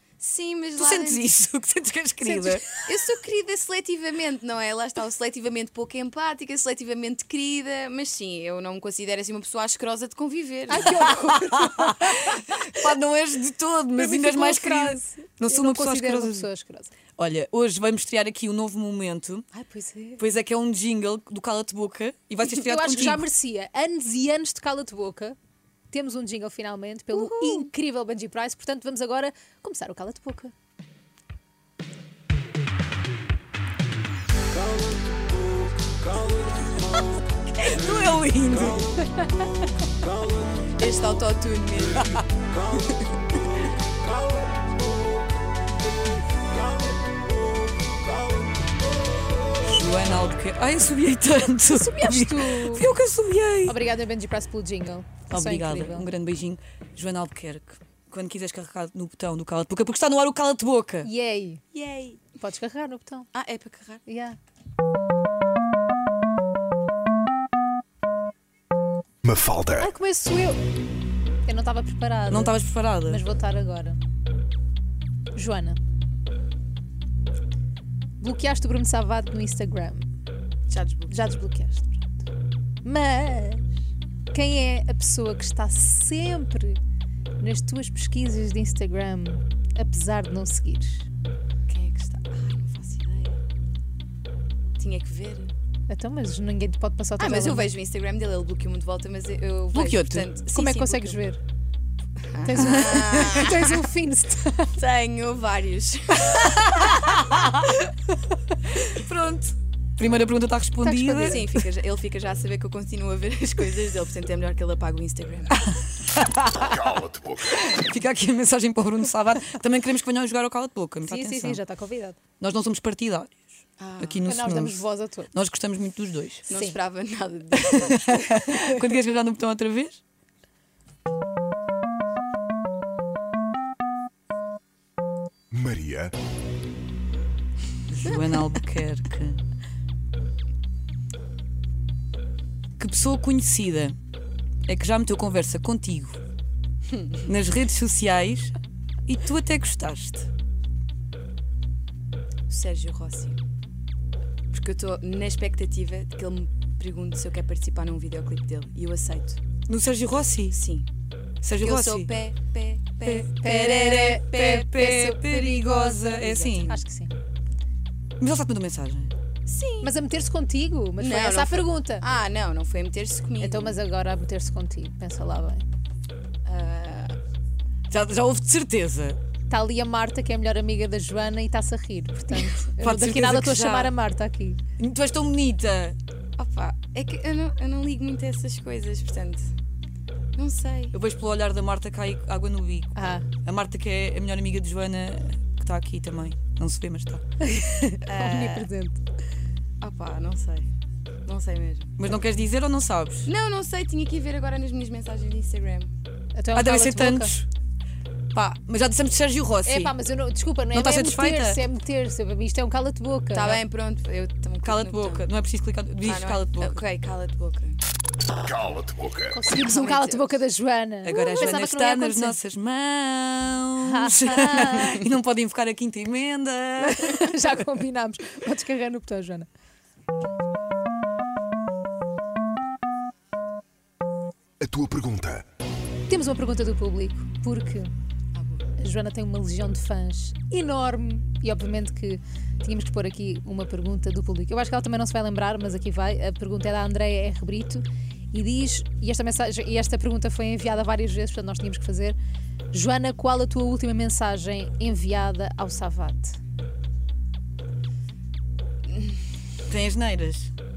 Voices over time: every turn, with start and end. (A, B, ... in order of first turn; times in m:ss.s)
0:00.2-0:01.4 A
0:00.8-0:02.7 B
0:02.2-0:02.6 C
0:02.8-0:11.1 A
0:10.7-0:12.4 C
0:10.9-0:16.5 B
0:14.0-0:16.9 C
0:14.1-0:14.4 A
0:17.2-0:19.4 B
0:19.5-0:20.2 C
0:20.2-0:23.3 B
0:22.4-0:25.4 C
0:25.9-0:30.5 C
0:27.2-0:27.7 A
0:37.0-0:39.1 B
0:40.8-0:42.2 A
0:49.6-0:53.8 B
0:51.6-0:52.9 C
0:53.6-0:56.1 C
0:55.3-1:01.1 B
1:01.0-1:01.6 C
1:01.7-1:02.2 A
1:02.3-1:03.3 C
1:03.3-1:04.0 A
1:04.0-1:04.4 C
1:09.2-1:09.9 D
1:09.8-1:10.6 C
1:11.4-1:14.0 C
1:12.3-1:13.2 B
1:15.3-1:15.8 C
1:18.2-1:20.0 C
1:20.7-1:21.2 A
1:21.1-1:22.1 C
1:22.8-1:23.8 C
1:24.3-1:26.8 C
1:27.4-1:31.0 C
1:31.7-1:33.4 A
1:34.8-1:35.5 A
1:35.9-1:37.7 C
1:37.2-1:41.2 A
1:39.7-1:40.3 B
1:40.4-1:41.4 C
1:42.2-1:43.8 A
1:42.4-1:44.8 C
1:44.7-1:47.0 A
1:46.3-1:47.8 B
1:48.7-1:51.4 B
1:50.8-1:51.5 C
1:51.2-1:55.6 A
1:55.7-2:01.6 B
1:56.8-1:57.3 D
2:01.0-2:02.2 C
2:02.4-2:06.5 B
2:03.8-2:04.3 A
2:04.2-2:05.3 C
2:06.5-2:08.2 A
2:06.5-2:06.8 C
2:07.6-2:10.0 B
2:15.5-2:16.1 D
2:17.9-2:19.4 B
2:22.8-2:24.0 B
2:24.7-2:26.2 B
2:26.9-2:27.2 A
2:27.2-2:28.5 B
2:29.0-2:30.3 B
2:32.5-2:33.4 A
2:34.5-2:39.4 A
2:39.7-2:40.6 B
2:40.5-2:40.9 A
2:41.4-2:42.1 B
2:41.5-2:46.8 A
2:43.0-2:46.7 B
2:43.4-2:44.6 C
2:46.7-2:47.1 C
2:48.2-2:49.1 B
2:49.5-2:49.9 A
2:49.8-2:52.0 C
2:51.0-2:53.8 A
2:53.4-2:55.6 C
2:56.4-2:57.2 A
2:57.9-2:59.2 B
2:59.5-3:04.6 C
3:02.4-3:03.9 B
3:04.8-3:06.0 B
3:06.4-3:09.5 A
3:10.4-3:10.9 A
3:10.9-3:18.0 B
3:13.0-3:13.2 C
3:17.5-3:19.0 C
3:18.0-3:18.7 A
3:19.8-3:20.7 A
3:21.2-3:21.9 A
3:22.0-3:23.3 B
3:23.2-3:25.9 A
3:26.3-3:27.3 C
3:26.5-3:27.5 B
3:28.3-3:29.9 B
3:29.6-3:33.6 C
3:30.7-3:31.6 B
3:33.3-3:35.3 A
3:34.6-3:36.8 B
3:36.0-3:37.8 A
3:38.5-3:39.3 D
3:39.3-3:42.4 C
3:39.5-3:40.4 A
3:41.0-3:47.1 B
3:43.8-3:44.9 C
3:46.8-3:49.5 C
3:54.6-3:55.4 D
3:56.1-3:57.9 C
3:58.3-3:58.7 A
3:58.8-4:12.2 C
4:12.7-4:16.4 C
4:18.9-4:19.2 A
4:19.7-4:20.5 B